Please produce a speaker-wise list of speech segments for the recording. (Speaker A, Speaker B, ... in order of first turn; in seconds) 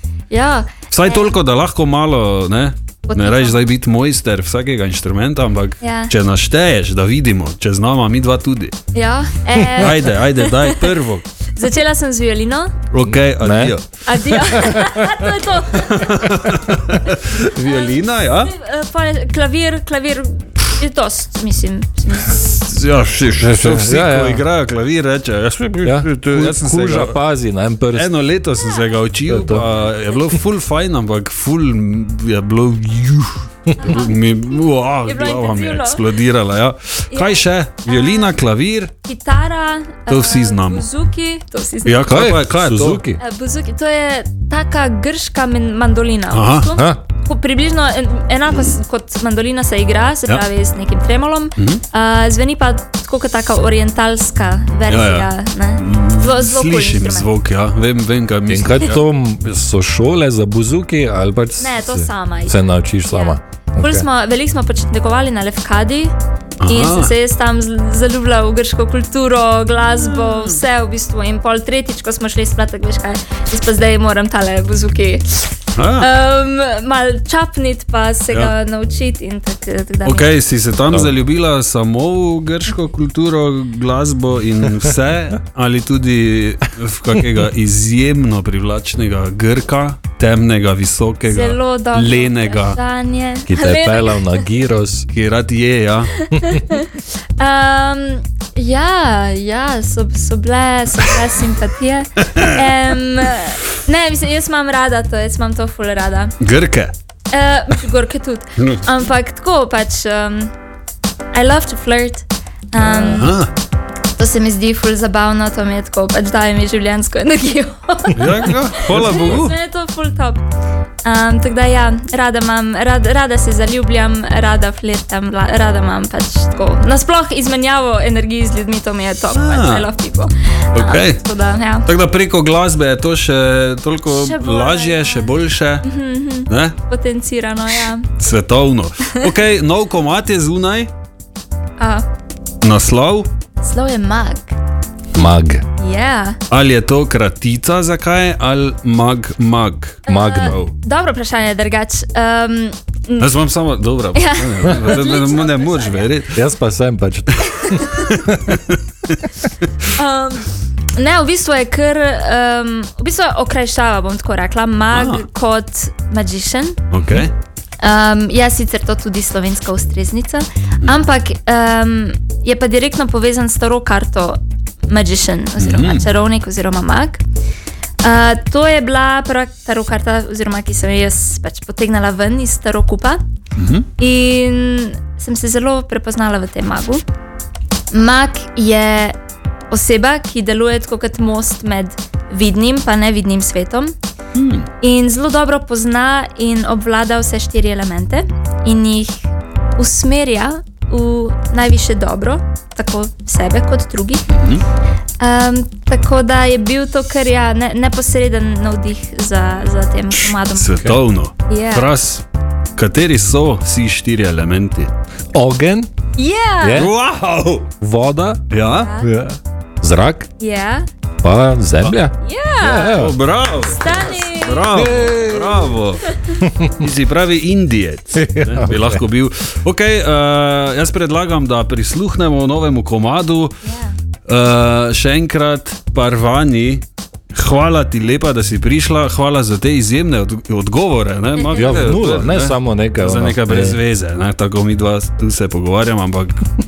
Speaker A: 0.3-1.4, 3.1-3.6, 5.8-6.1, 8.9-10.9, 11.6-12.7, 14.1-16.4, 17.1-22.5, 28.6-29.0, 29.5-30.3, 33.8-36.1, 37.1-38.4, 39.0-42.3, 43.2-57.3, 61.6-66.1, 66.7-80.4, 91.3-94.5, 96.2-106.3, 107.3-110.5, 111.3-113.4, 114.2-120.4, 121.0-131.9, 134.1-138.1, 141.8-142.1, 143.6-144.6, 145.8-146.4, 150.1-153.3, 154.1-156.2, 157.4-158.2, 159.9-166.8, 167.8-177.2, 178.0-183.2, 184.0-187.0, 187.9-189.2, 189.7-193.9, 194.8-199.3, 199.8-204.3, 205.2-210.9, 211.5-211.9, 216.2-216.9, 218.7-219.1, 220.4-220.9, 222.2-223.0, 223.7-224.8, 226.0-226.4, 233.6-234.0, 241.4-242.0
Speaker B: 0.9-8.8, 9.8-11.3, 12.9-13.8, 15.9-18.6, 22.2-27.2, 27.9-38.9, 40.1-40.9, 41.9-43.0, 46.3-46.7, 51.6-51.8, 54.9-59.0, 66.6-67.1, 69.9-70.6, 75.7-76.1, 80.0-92.8, 95.1-96.2, 102.2-102.7, 106.4-106.9, 108.6-108.8, 112.8-113.5, 118.2-119.6, 129.3-129.9, 130.8-131.2, 131.8-135.9, 136.5-136.8, 138.2-140.9, 142.6-143.3, 146.5-150.7, 153.2-156.4, 158.0-159.3, 164.9-165.2, 166.9-167.3, 175.6-176.1, 183.6-183.9, 194.3-194.7, 204.3-204.6, 210.1-212.2, 212.8-214.9, 216.7-217.7, 218.5-219.1, 222.9-226.1, 226.8-233.6, 234.3-246.4
Speaker C: 13.0-13.8, 14.3-15.1, 23.4-24.4, 25.8-28.1, 29.3-29.7, 42.1-43.2, 46.8-47.0, 58.5-64.1, 93.5-95.1, 119.1-119.4, 145.2-145.6, 150.1-150.6, 156.3-158.6, 215.3-215.9, 216.6-216.9, 217.8-218.4, 219.0-220.3, 221.2-223.2, 224.7-225.8, 226.3-226.8, 228.2-229.0, 241.6-243.8